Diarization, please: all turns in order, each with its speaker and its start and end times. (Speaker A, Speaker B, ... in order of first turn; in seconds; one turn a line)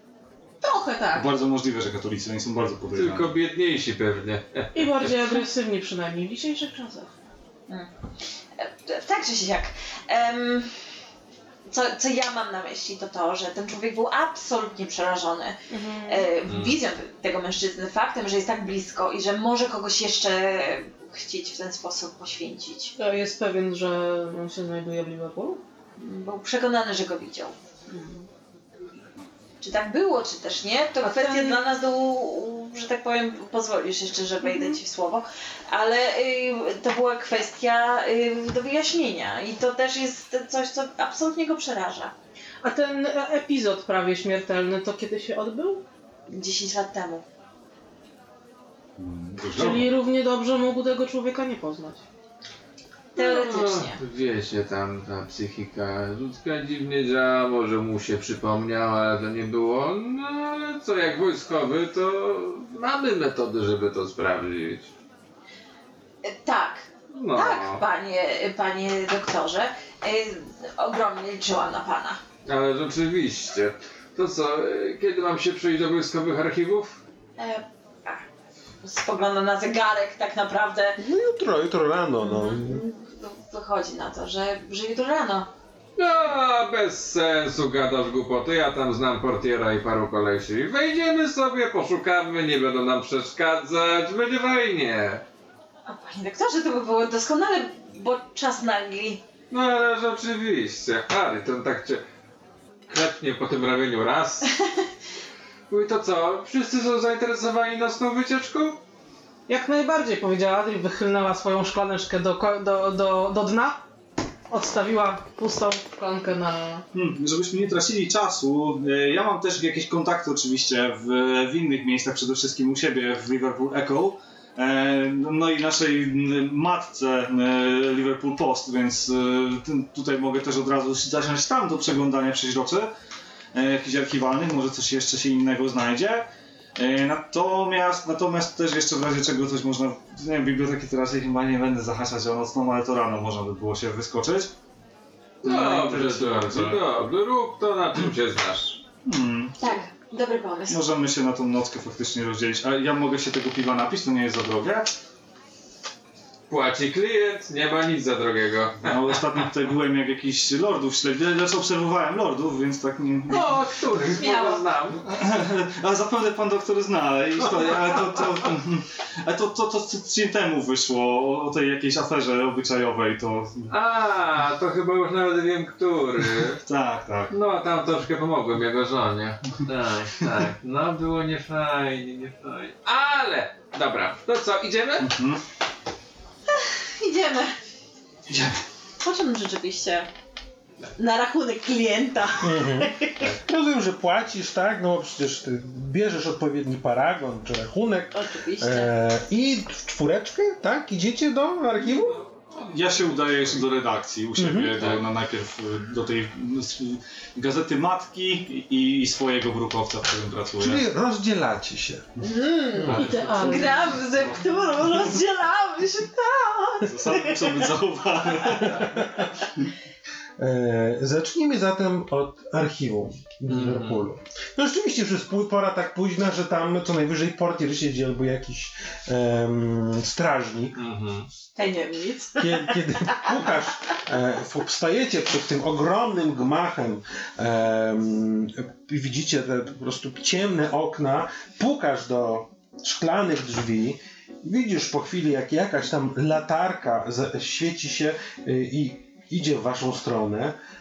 Speaker A: 0.6-1.3
Speaker B: 1.1-3.3
Speaker C: 2.9-5.4
Speaker A: 4.7-7.1
Speaker D: 8.6-10.7
Speaker D: 11.7-22.9
Speaker A: 15.7-16.3
Speaker C: 16.5-16.8
Speaker A: 23.0-25.6
Speaker D: 26.0-27.5
Speaker A: 27.9-28.3
Speaker D: 29.6-42.1
Speaker A: 31.0-31.6
Speaker A: 42.6-45.8
Speaker D: 46.3-47.2
Speaker B: 49.0-49.9
Speaker A: 49.5-52.0
Speaker D: 53.1-54.0
Speaker C: 53.2-64.9
Speaker D: 66.2-72.2
Speaker C: 67.1-67.8
Speaker C: 72.5-77.0
Speaker D: 77.4-78.2
Speaker D: 78.8-81.0
Speaker E: 81.0-82.8
Speaker D: 82.2-85.5
Speaker C: 86.0-95.2
Speaker D: 95.9-99.2
Speaker C: 99.5-102.0
Speaker C: 102.9-104.5
Speaker C: 105.7-108.8
Speaker A: 109.5-113.8
Speaker A: 114.5-116.8
Speaker B: 116.9-132.9
Speaker B: 133.5-136.2
Speaker B: 136.8-144.5
Speaker C: 145.4-148.8
Speaker B: 145.4-146.8
Speaker B: 149.1-149.5
Speaker D: 149.6-150.8
Speaker B: 150.7-154.9
Speaker C: 156.5-159.2
Speaker B: 158.8-163.6
Speaker C: 163.3-165.0
Speaker D: 164.2-164.6
Speaker B: 165.1-173.7
Speaker C: 173.7-176.6
Speaker B: 176.7-177.3
Speaker C: 177.3-185.1
Speaker B: 185.0-185.4
Speaker D: 187.0-187.5
Speaker E: 188.3-188.5
Speaker D: 189.0-190.1
Speaker D: 191.0-193.2
Speaker E: 192.4-202.2
Speaker D: 198.1-198.9
Speaker B: 202.5-210.8
Speaker E: 204.3-204.7
Speaker C: 204.7-205.1
Speaker E: 210.6-212.1
Speaker D: 212.2-217.5
Speaker C: 212.8-214.2
Speaker A: 212.9-213.7
Speaker B: 216.8-219.7
Speaker C: 218.6-218.9
Speaker E: 218.8-219.2
Speaker E: 220.4-230.8
Speaker C: 223.5-224.0
Speaker C: 230.7-231.3
Speaker D: 231.6-233.3
Speaker E: 232.4-250.5